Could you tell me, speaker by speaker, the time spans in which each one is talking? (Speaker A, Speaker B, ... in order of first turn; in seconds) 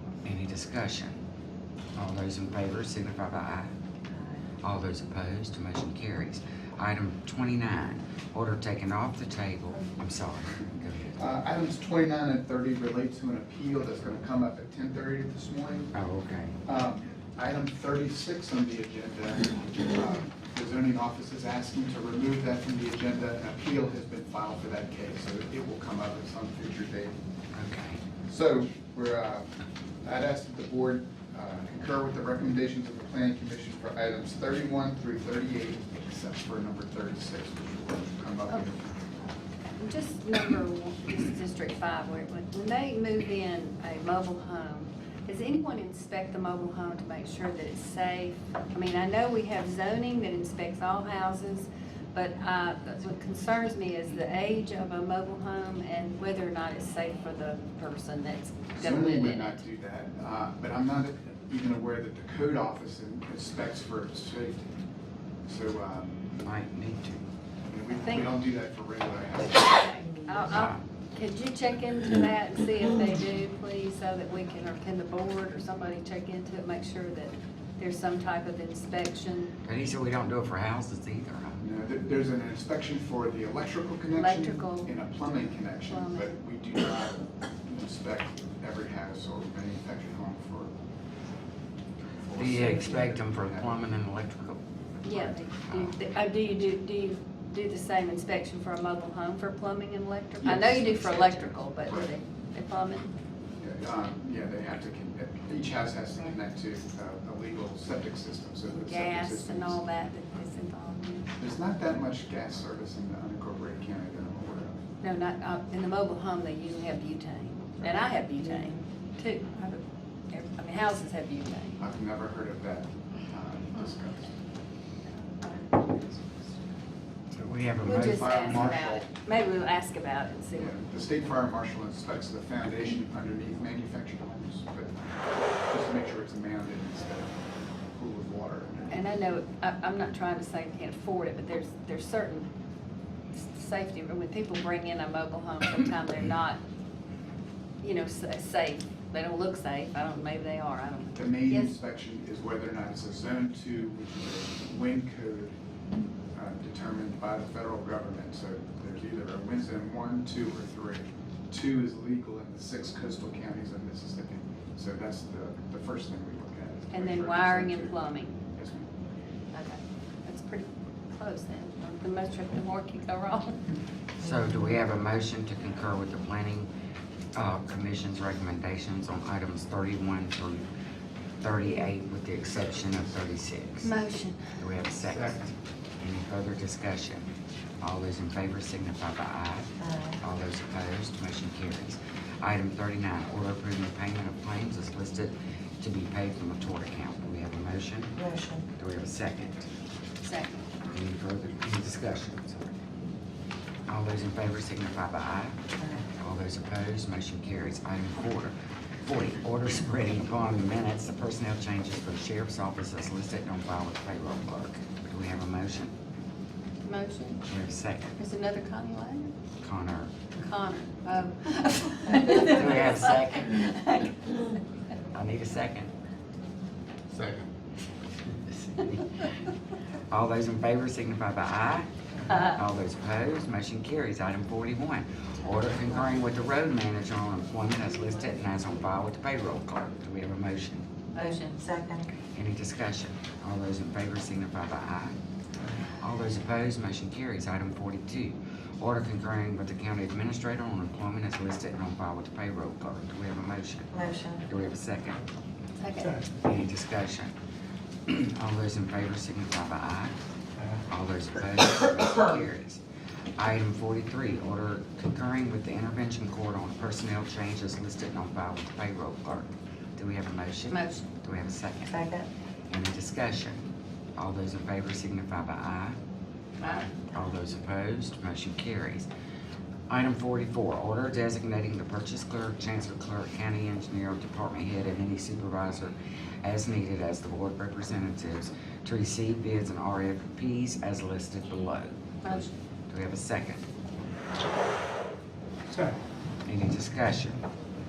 Speaker A: 0.2-1.2, 2.0-3.7, 4.6-11.2, 15.9-16.6, 27.6-28.0, 66.4-67.2, 70.5-70.8, 79.6-81.6, 92.4-95.9, 127.3-128.7, 174.2-176.7, 177.4-180.7, 181.4-183.9, 184.6-198.2, 198.8-199.7, 200.8-202.8, 203.9-205.6, 206.2-215.9, 217.5-218.1, 219.6-220.1, 222.4-223.5, 225.1-225.9, 228.5-229.3, 230.1-240.9, 242.3-245.2, 246.0-255.2, 256.4-257.3, 258.1-260.2, 260.9-262.8, 263.4-272.0, 272.7-273.7, 274.2-276.0, 276.7-279.1, 279.9-293.6, 296.5-297.4
Speaker B: 4.1-4.5, 70.0-70.4, 189.8-190.2, 198.2-198.7, 241.2-242.1, 253.9-254.4, 271.9-272.3
Speaker C: 11.2-15.9, 16.6-27.2, 28.3-29.5, 30.0-39.0, 58.8-64.7, 65.5-66.3, 67.7-69.9, 81.6-90.7, 92.2-93.8, 100.4-102.1, 103.6-109.8, 111.4-114.8, 121.8-124.3, 128.0-129.1, 130.5-139.0, 151.2-155.6, 156.3-168.0, 168.5-168.9, 227.2-227.4
Speaker D: 39.8-59.6, 68.0-68.3, 69.8-79.5, 84.2-84.9, 85.9-86.3, 95.0-103.1, 108.7-111.3, 115.0-121.8, 125.1-126.8, 127.8-130.7, 138.9-142.5, 143.3-146.6, 147.8-151.7, 166.9-168.4, 169.5-173.6, 183.8-184.6, 200.2-200.7, 216.8-217.4, 218.2-219.3, 220.4-224.6, 232.3-232.6, 238.0-238.3, 241.1-241.6, 255.8-256.2, 270.7-271.0, 276.6-277.0, 292.2-292.5